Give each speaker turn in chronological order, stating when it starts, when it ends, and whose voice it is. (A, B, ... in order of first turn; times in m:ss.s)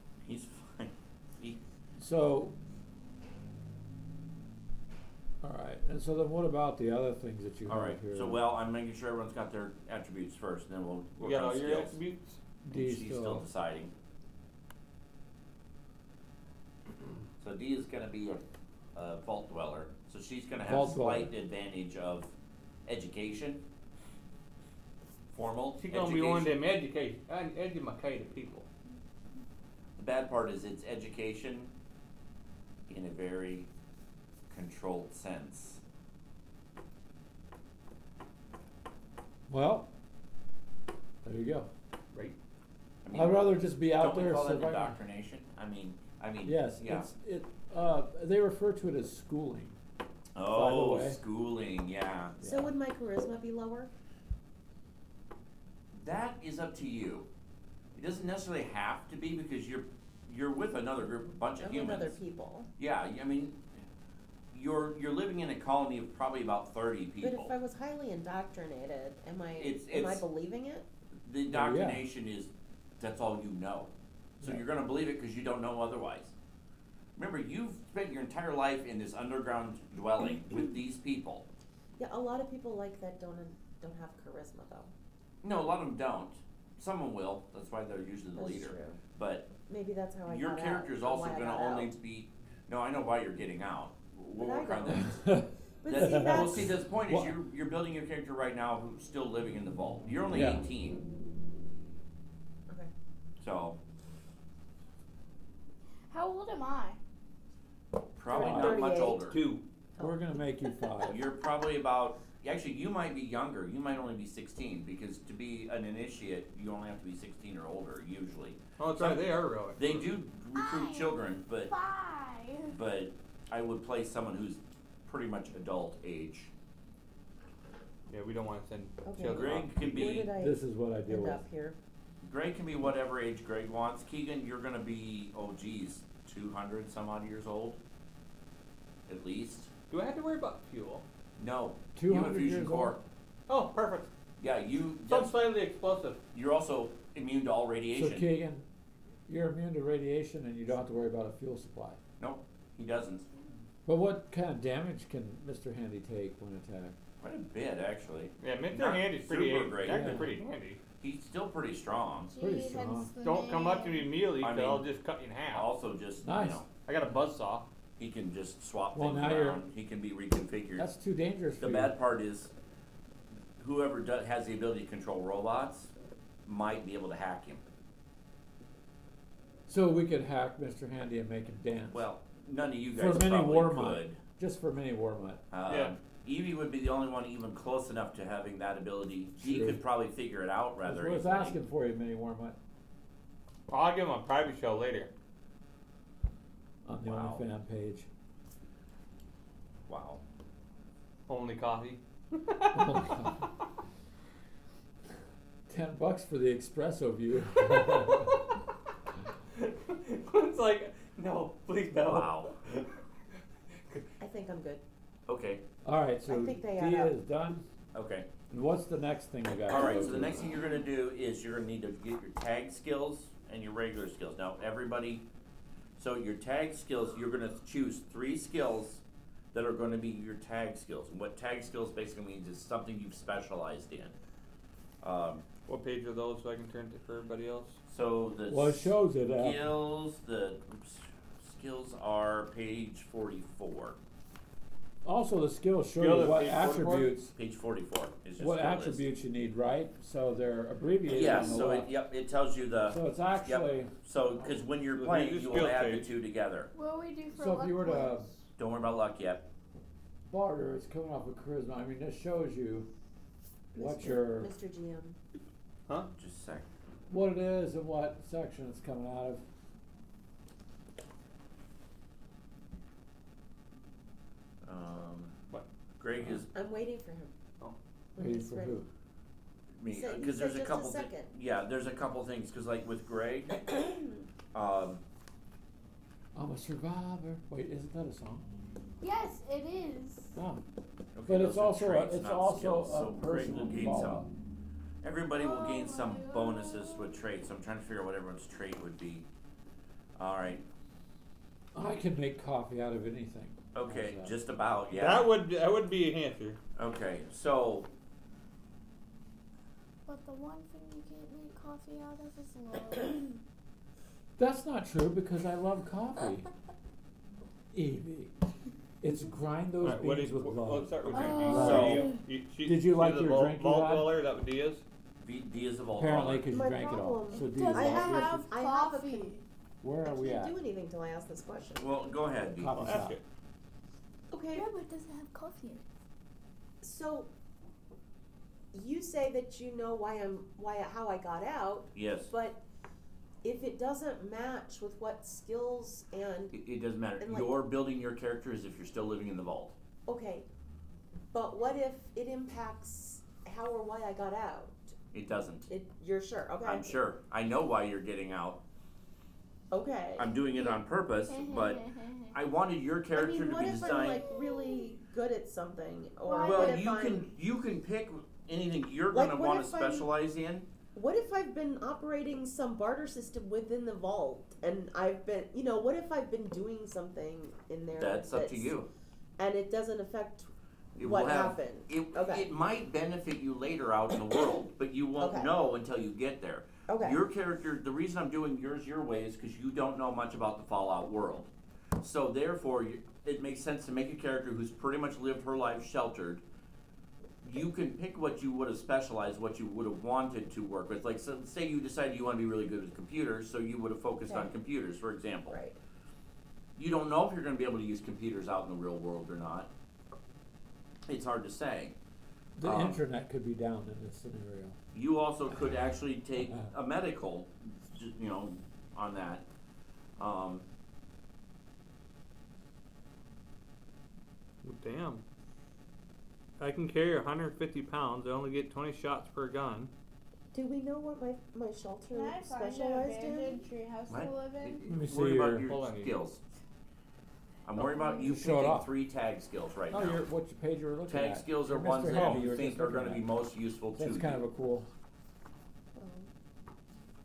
0:00.2-0:01.6 A
0:02.0-0:02.5 B
0:05.4-0:08.4 B
0:07.7-0:12.0 A
0:11.2-0:12.4 C
0:12.6-0:13.4 B
0:12.7-0:13.9 A
0:17.4-0:18.4 A
0:18.9-0:22.3 A
0:20.6-0:21.3 B
0:22.8-0:23.6 A
0:25.3-0:26.5 A
0:25.8-0:28.7 C
0:30.0-0:31.7 A
0:32.9-0:33.7 A
0:34.5-0:35.8 A
0:39.5-0:39.9 B
0:41.2-0:41.7 B
0:43.0-0:47.1 A
0:43.1-0:45.0 B
0:46.4-0:49.8 B
0:50.3-0:52.4 A
0:50.4-0:51.2 B
0:52.4-0:52.7 B
0:52.4-0:53.9 D
0:55.9-0:57.3 A
0:57.9-1:02.1 A
1:01.6-1:02.7 D
1:02.8-1:03.8 A
1:04.5-1:07.5 A
1:07.2-1:10.9 D
1:09.6-1:10.2 A
1:11.2-1:16.3 A
1:11.5-1:12.0 B
1:17.2-1:21.5 A
1:22.0-1:24.9 D
1:25.4-1:29.5 A
1:28.4-1:29.0 D
1:29.7-1:31.9 D
1:30.2-1:35.2 A
1:34.4-1:35.2 D
1:35.0-1:37.4 B
1:35.8-1:36.8 D
1:35.9-1:41.0 A
1:40.3-1:40.6 B
1:43.4-1:43.8 A
1:46.1-1:47.0 E
1:48.2-1:49.4 A
1:48.3-1:48.8 B
1:48.3-1:49.2 D
1:48.4-1:49.6 C
1:50.0-1:51.2 B
1:51.1-1:59.2 A
1:58.8-2:00.1 C
1:59.8-2:01.7 A
2:00.6-2:02.8 E
2:02.7-2:06.5 A
2:08.1-2:09.8 C
2:09.0-2:11.8 D
2:09.3-2:10.3 A
2:09.8-2:11.4 B
2:12.2-2:17.8 A
2:19.1-2:19.7 A
2:19.9-2:21.0 C
2:21.4-2:23.0 A
2:21.9-2:23.0 B
2:23.5-2:24.1 C
2:24.4-2:25.3 A
2:25.1-2:26.2 C
2:26.3-2:28.3 A
2:27.9-2:28.6 B
2:29.3-2:32.0 B
2:32.2-2:33.3 A
2:33.8-2:37.0 B
2:37.2-2:40.3 A
2:38.4-2:40.8 C
2:39.8-2:40.3 B
2:41.0-2:42.4 A
2:42.3-2:44.1 E
2:42.4-2:43.1 B
2:43.2-2:45.7 C
2:44.4-2:44.9 A
2:45.5-2:46.7 A
2:46.2-2:46.6 B
2:46.8-2:47.6 C
2:48.0-2:50.9 A
2:48.9-2:49.6 B
2:50.8-2:51.9 B
2:51.6-2:52.5 A
2:53.6-2:55.9 A
2:56.4-2:57.6 A
2:59.7-3:02.1 B
3:01.9-3:04.2 A
3:03.0-3:05.4 B
3:05.5-3:11.6 A
3:05.7-3:05.9 C
3:09.4-3:09.8 B
3:10.8-3:12.6 B
3:13.7-3:15.1 C
3:16.8-3:18.1 B
3:17.0-3:17.4 A
3:19.9-3:20.2 A
3:21.3-3:23.5 C
3:22.8-3:23.4 B
3:25.7-3:28.4 B
3:29.5-3:32.9 C
3:31.9-3:32.5 A
3:34.2-3:34.8 D
3:35.3-3:35.6 A
3:35.8-3:37.6 B
3:36.3-3:37.1 D
3:37.9-3:38.3 A
3:38.5-3:40.5 B
3:39.7-3:45.2 A
3:46.0-3:49.0 A
3:49.5-3:54.1 A
3:55.0-3:55.4 A
3:55.7-3:57.8 C
3:57.9-4:04.0 A
3:58.5-3:59.7 B
4:05.0-4:07.3 B
4:06.0-4:07.2 C
4:07.4-4:09.0 A
4:08.4-4:11.9 B
4:11.1-4:16.7 A
4:12.9-4:14.5 B
4:14.9-4:16.1 C
4:16.8-4:18.3 E
4:17.3-4:18.3 B
4:18.6-4:19.4 A
4:20.3-4:22.9 B
4:23.7-4:24.5 B
4:23.7-4:25.2 D
4:26.2-4:26.7 A
4:27.1-4:29.4 B
4:34.6-4:35.4 A
4:36.0-4:36.5 A
4:36.5-4:37.3 D
4:38.1-4:38.8 D
4:38.2-4:38.9 B
4:39.8-4:43.7 A
4:39.9-4:41.3 D
4:44.5-4:45.0 A
4:46.4-4:48.6 B
4:49.0-4:50.4 E
4:50.4-4:50.6 B
4:51.1-4:54.2 A
4:51.2-4:54.3 B
4:55.0-4:59.3 A
4:55.3-4:57.2 E
5:00.2-5:00.6 A
5:01.7-5:04.4 B
5:03.7-5:05.3 A
5:04.9-5:06.6 C
5:06.8-5:07.9 A
5:10.0-5:13.3 E
5:14.4-5:16.5 B
5:17.7-5:18.3 B
5:19.0-5:24.1 B
5:19.8-5:24.8 C
5:21.1-5:22.2 E
5:21.2-5:22.1 A
5:25.2-5:26.5 A
5:25.9-5:28.4 B
5:26.5-5:29.4 D
5:27.3-5:29.4 E
5:29.8-5:30.5 B
5:30.0-5:31.9 D
5:31.8-5:33.0 A
5:32.6-5:33.2 B
5:32.8-5:33.2 C
5:34.3-5:34.7 D
5:34.5-5:35.8 E
5:36.8-5:37.3 D
5:38.7-5:42.6 D
5:41.9-5:42.3 A
5:43.4-5:46.5 D
5:46.5-5:49.8 A
5:47.2-5:47.5 D
5:50.1-5:50.4 D
5:51.3-5:55.0 D
5:55.1-5:55.7 A
5:55.7-5:57.0 D
5:56.6-5:58.6 A
5:59.7-6:00.4 D
6:00.2-6:04.2 A
6:01.3-6:02.4 E
6:03.1-6:07.3 D
6:04.2-6:04.9 E
6:06.2-6:06.9 E
6:06.4-6:10.7 A
6:09.1-6:10.1 D
6:10.9-6:18.8 D
6:17.9-6:18.9 A
6:19.4-6:22.5 D
6:21.0-6:36.4 A
6:25.2-6:25.5 D
6:26.9-6:27.2 D
6:37.4-6:45.6 A
6:44.2-6:44.5 D
6:45.5-6:45.8 D
6:46.8-6:49.7 A
6:51.1-6:51.9 A
6:52.6-6:54.8 B
6:52.6-6:53.0 A
6:54.9-6:59.4 A
7:00.2-7:00.6 A
7:04.6-7:05.2 C
7:06.6-7:09.9 C
7:10.5-7:13.6 D
7:12.1-7:14.9 E
7:14.1-7:16.4 A
7:14.9-7:15.7 B
7:15.6-7:16.2 C
7:17.6-7:20.2 A
7:17.8-7:18.3 E
7:18.2-7:18.9 B
7:19.9-7:23.3 B
7:21.1-7:24.4 A
7:22.0-7:22.5 C
7:23.9-7:24.9 B
7:26.0-7:26.3 D